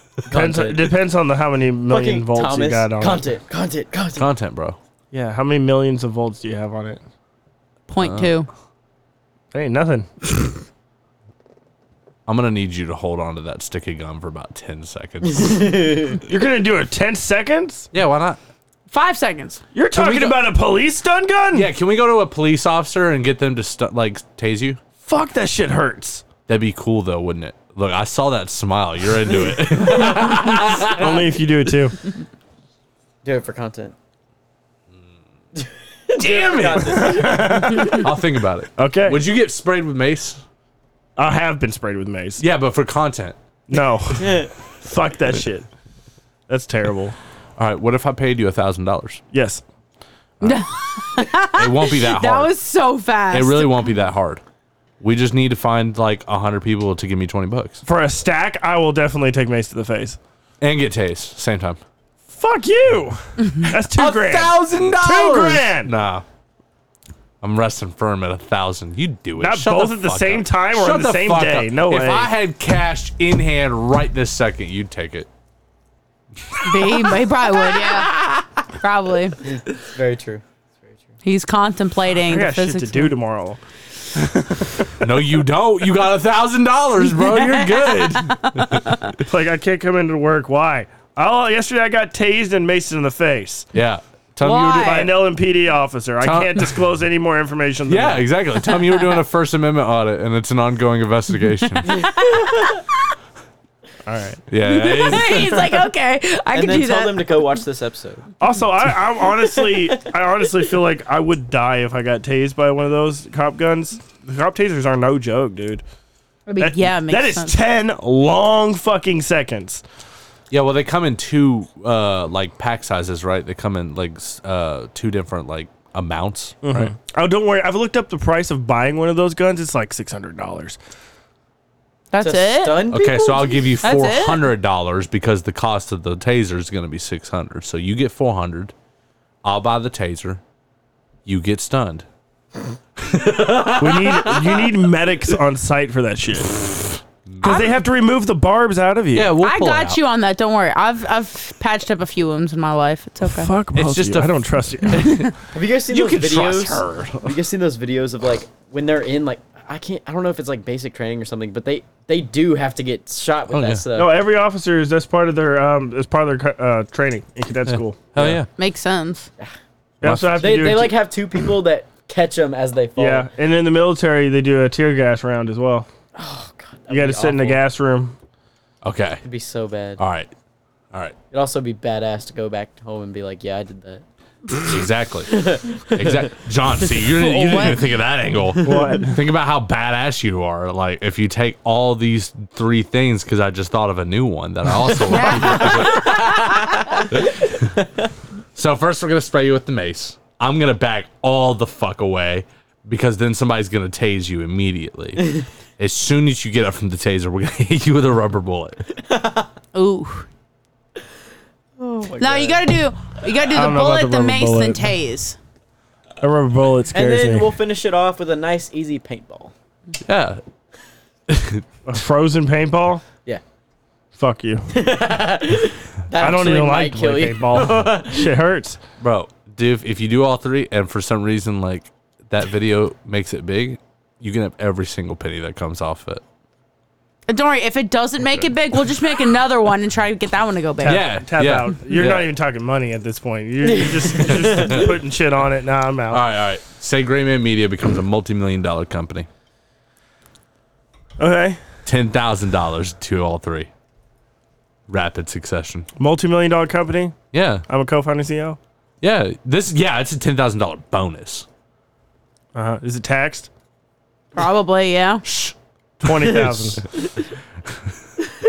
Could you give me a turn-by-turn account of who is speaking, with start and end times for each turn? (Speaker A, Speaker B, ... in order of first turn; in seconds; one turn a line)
Speaker A: 0.2-0.9
Speaker B: 0.3-3.2
Speaker A: 1.9-4.3
Speaker C: 4.2-4.8
Speaker B: 5.1-7.0
Speaker D: 7.9-8.5
Speaker C: 8.0-8.3
Speaker B: 9.5-10.5
Speaker C: 12.2-16.0
Speaker A: 15.4-16.2
Speaker B: 16.2-17.9
Speaker C: 17.9-18.4
Speaker D: 18.9-19.6
Speaker B: 19.7-21.7
Speaker C: 19.9-20.5
Speaker C: 21.5-24.8
Speaker B: 25.0-26.2
Speaker C: 26.5-31.3
Speaker B: 30.1-32.0
Speaker A: 33.2-33.9
Speaker A: 35.6-38.0
Speaker C: 36.1-40.4
Speaker B: 36.9-38.0
Speaker B: 38.8-39.2
Speaker B: 41.2-42.4
Speaker C: 42.4-43.4
Speaker B: 43.7-45.7
Speaker A: 44.2-44.5
Speaker B: 46.5-47.1
Speaker C: 47.6-49.2
Speaker B: 49.3-49.6
Speaker D: 50.4-53.8
Speaker C: 51.5-52.5
Speaker C: 53.3-54.4
Speaker C: 55.0-57.8
Speaker B: 57.8-60.2
Speaker C: 60.6-61.8
Speaker B: 62.3-65.9
Speaker C: 63.9-66.2
Speaker C: 67.4-75.3
Speaker B: 69.4-72.3
Speaker C: 76.6-78.4
Speaker D: 76.6-79.4
Speaker A: 79.4-80.4
Speaker D: 81.2-83.2
Speaker B: 82.2-83.6
Speaker B: 84.1-85.0
Speaker C: 85.0-88.8
Speaker D: 87.5-88.9
Speaker B: 89.2-93.7
Speaker C: 93.7-95.1
Speaker D: 94.4-95.2
Speaker B: 94.8-98.2
Speaker C: 96.2-96.8
Speaker C: 97.9-102.0
Speaker D: 101.8-102.8
Speaker B: 104.0-104.4
Speaker C: 104.5-105.7
Speaker D: 104.6-107.4
Speaker A: 106.5-108.3
Speaker B: 108.4-115.8
Speaker A: 109.3-110.0
Speaker D: 116.5-117.5
Speaker B: 116.6-119.8
Speaker C: 120.5-126.9
Speaker B: 126.6-130.8
Speaker D: 132.1-133.0
Speaker A: 132.2-133.6
Speaker C: 132.9-138.7
Speaker D: 133.8-134.4
Speaker C: 139.4-140.4
Speaker C: 141.2-142.1
Speaker C: 143.0-144.6
Speaker B: 143.8-146.8
Speaker C: 147.3-147.7
Speaker B: 147.4-149.3
Speaker D: 147.4-147.7
Speaker C: 149.1-150.0
Speaker D: 149.4-153.5
Speaker B: 153.2-155.2
Speaker C: 153.7-155.3
Speaker A: 155.5-164.2
Speaker C: 155.9-157.2
Speaker C: 163.5-163.8
Speaker B: 163.9-168.4
Speaker C: 167.7-168.5
Speaker D: 168.6-169.3
Speaker B: 170.0-171.0
Speaker C: 170.0-170.8
Speaker A: 170.3-173.3
Speaker B: 173.0-175.9
Speaker A: 176.1-177.6
Speaker B: 176.9-178.2
Speaker C: 178.8-179.2
Speaker A: 179.2-180.0
Speaker C: 180.0-180.3
Speaker A: 181.3-184.0
Speaker C: 184.6-197.7
Speaker A: 185.3-186.3
Speaker D: 187.2-187.8
Speaker B: 188.6-189.2
Speaker D: 195.1-196.7
Speaker C: 198.5-208.8
Speaker A: 209.1-209.5
Speaker D: 209.7-210.3
Speaker A: 211.8-212.6
Speaker D: 212.2-215.4
Speaker B: 213.5-214.9
Speaker B: 216.2-217.5
Speaker A: 216.9-219.5
Speaker C: 220.0-220.4
Speaker C: 221.3-221.6
Speaker B: 221.8-223.0
Speaker B: 224.1-224.7
Speaker A: 224.7-228.3
Speaker B: 226.2-228.8
Speaker C: 229.0-236.2
Speaker D: 237.3-241.1
Speaker B: 240.8-246.2
Speaker C: 240.8-242.3
Speaker A: 243.6-244.9
Speaker C: 246.1-249.3
Speaker B: 251.2-251.6
Speaker C: 251.8-253.7
Speaker C: 254.9-255.9
Speaker B: 256.0-257.1
Speaker C: 257.3-257.6
Speaker B: 257.7-258.6
Speaker C: 259.0-261.4
Speaker B: 262.5-263.5
Speaker D: 264.3-265.2
Speaker C: 265.2-265.5
Speaker B: 266.0-266.8
Speaker A: 266.2-266.5